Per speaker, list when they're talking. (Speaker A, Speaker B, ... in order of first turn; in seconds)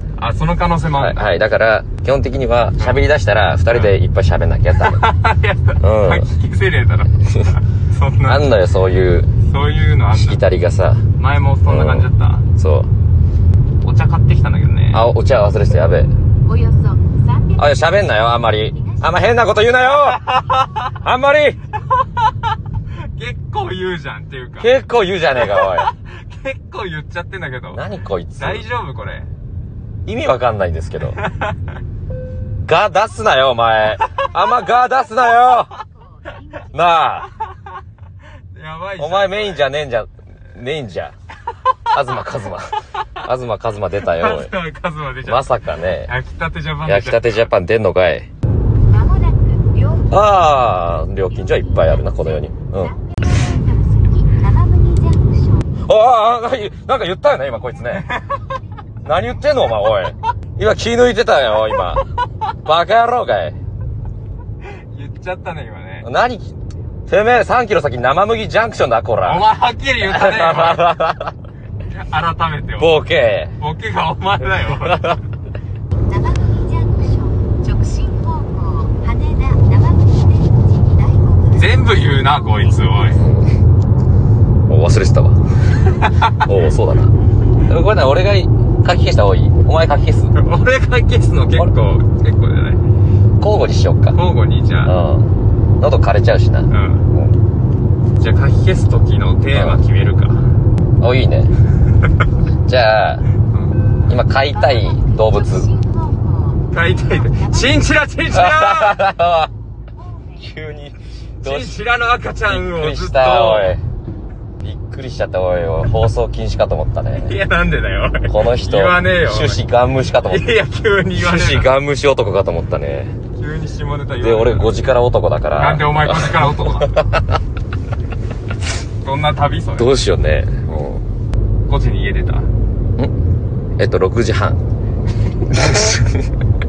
Speaker A: 0.2-1.2, 4.8-8.5, 9.5-10.4, 11.2-12.5, 13.8-15.0, 19.9-20.8, 23.1-24.7, 25.4-27.9, 28.4-29.3, 31.1-31.7, 38.5-39.7, 44.0-47.5, 57.9-58.5, 64.6-66.1, 69.2-70.9, 71.9-73.0, 73.6-75.2, 81.5-83.2, 86.0-86.4, 90.3-92.8, 94.1-95.0, 96.7-97.1, 98.2-100.5, 103.5-103.8, 106.7-109.0, 111.4-113.8, 117.2-119.6, 120.2-121.7, 123.4-124.7, 125.6-127.1, 129.0-129.9, 131.7-132.5
Speaker B: 0.9-5.0, 5.8-6.3, 8.3-9.3, 10.1-11.1, 11.7-12.9, 14.9-16.1, 17.6-20.3, 20.9-21.6, 24.6-25.9, 27.7-28.6, 30.1-31.2, 32.7-35.8, 36.7-37.3, 39.0-41.1, 41.9-44.5, 45.2-46.1, 46.9-48.3, 50.1-52.9, 55.9-58.1, 59.0-63.6, 66.0-66.5, 67.1-69.5, 70.0-71.3, 72.8-73.6, 74.9-75.2, 83.2-83.6, 84.7-85.4, 86.4-87.1, 87.7-90.3, 93.4-94.2, 94.8-95.3, 95.8-97.4, 99.5-99.8, 101.0-101.5, 102.7-103.2, 104.1-105.7, 108.3-109.5, 110.4-111.8, 112.5-113.8, 114.6-117.4, 118.3-120.5, 121.2-123.2, 124.2-127.2, 129.8-131.0, 133.8-134.6, 135.5-136.2
Speaker C: 16.4-18.0, 18.6-19.6, 35.6-37.0, 48.9-55.7, 76.0-82.3, 104.5-107.8, 110.0-110.5